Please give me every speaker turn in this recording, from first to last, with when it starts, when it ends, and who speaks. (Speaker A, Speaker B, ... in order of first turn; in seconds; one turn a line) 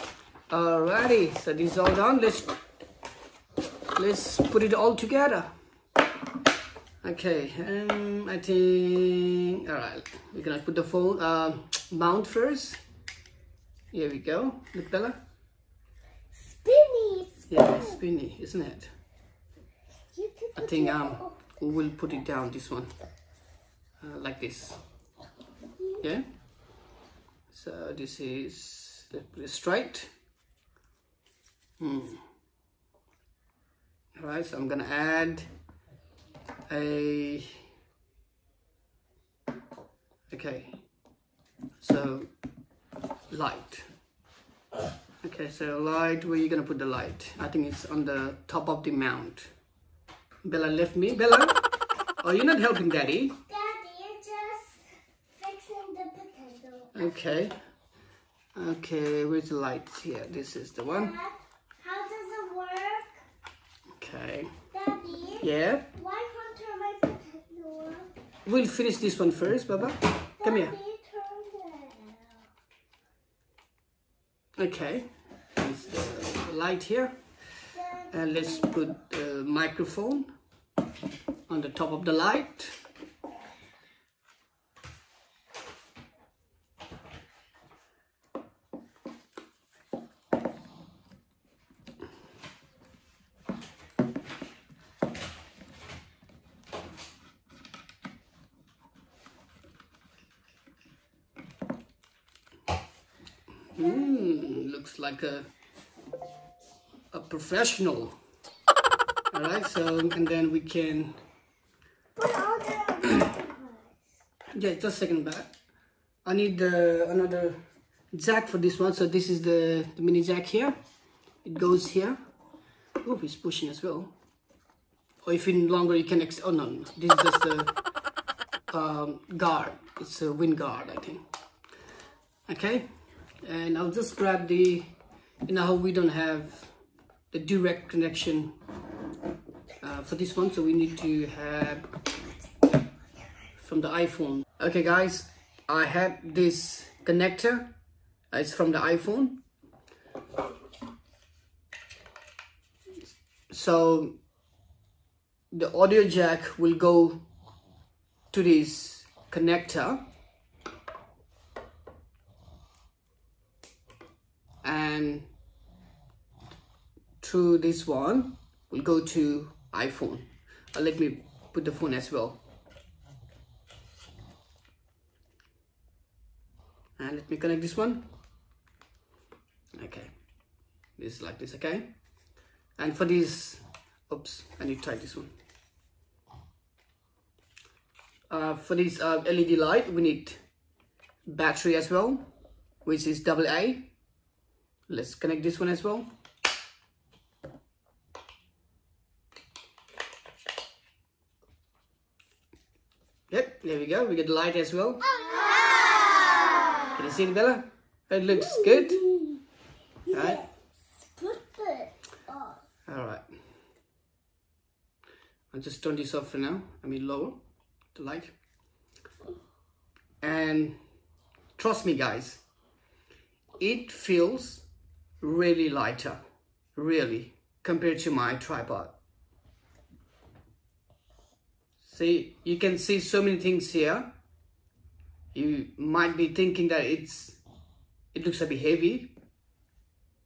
Speaker A: 0.5-2.5
Speaker A: 4.0-5.5
Speaker A: 7.0-12.8
Speaker A: 13.9-15.2
Speaker B: 16.3-18.0
Speaker A: 17.5-18.9
Speaker B: 20.1-21.4
Speaker A: 20.6-22.9
Speaker A: 24.0-24.8
Speaker B: 25.8-26.0
Speaker A: 27.5-30.1
Speaker A: 31.8-32.2
Speaker A: 34.2-35.5
Speaker A: 36.7-37.5
Speaker A: 40.3-40.8
Speaker A: 41.8-42.3
Speaker A: 43.3-43.9
Speaker A: 45.2-49.5
Speaker A: 50.4-51.6
Speaker A: 52.2-53.4
Speaker B: 53.5-54.8
Speaker B: 55.4-57.2
Speaker A: 56.9-57.5
Speaker A: 58.5-61.1
Speaker B: 60.9-63.2
Speaker A: 64.0-64.5
Speaker B: 64.7-68.1
Speaker A: 65.4-65.9
Speaker A: 68.5-70.7
Speaker B: 70.4-72.5
Speaker A: 74.6-77.1
Speaker B: 77.7-78.8
Speaker A: 78.1-80.3
Speaker A: 81.5-82.8
Speaker A: 103.8-105.5
Speaker B: 103.8-104.6
Speaker A: 107.1-108.2
Speaker A: 109.3-111.1
Speaker B: 112.2-114.0
Speaker A: 114.5-115.5
Speaker A: 116.2-117.6
Speaker A: 118.1-120.8
Speaker A: 121.5-122.2
Speaker A: 123.0-124.1
Speaker A: 125.2-127.7
Speaker A: 128.7-131.2
Speaker A: 132.5-132.9
Speaker A: 133.4-134.9
Speaker A: 135.5-136.7
Speaker A: 137.3-138.5
Speaker A: 139.8-141.9
Speaker A: 143.6-147.7
Speaker A: 148.3-149.4
Speaker A: 153.5-154.2
Speaker A: 155.5-157.2
Speaker A: 158.3-160.0
Speaker A: 164.6-165.3
Speaker A: 167.2-172.4
Speaker A: 177.0-178.1
Speaker A: 179.8-180.1
Speaker A: 181.0-181.9
Speaker A: 182.8-185.3
Speaker A: 188.3-190.4
Speaker A: 191.3-192.3
Speaker A: 192.8-193.9
Speaker A: 194.9-196.1
Speaker A: 203.3-205.0
Speaker A: 206.9-209.0
Speaker B: 208.3-209.4
Speaker B: 210.1-212.6
Speaker A: 210.1-210.4
Speaker A: 212.9-213.2
Speaker A: 215.5-217.4
Speaker A: 217.9-218.3
Speaker A: 220.2-220.8
Speaker A: 221.6-222.4
Speaker A: 223.6-224.7
Speaker A: 225.2-226.2
Speaker A: 226.8-228.9
Speaker A: 231.8-234.1
Speaker A: 235.3-237.4
Speaker A: 238.1-239.1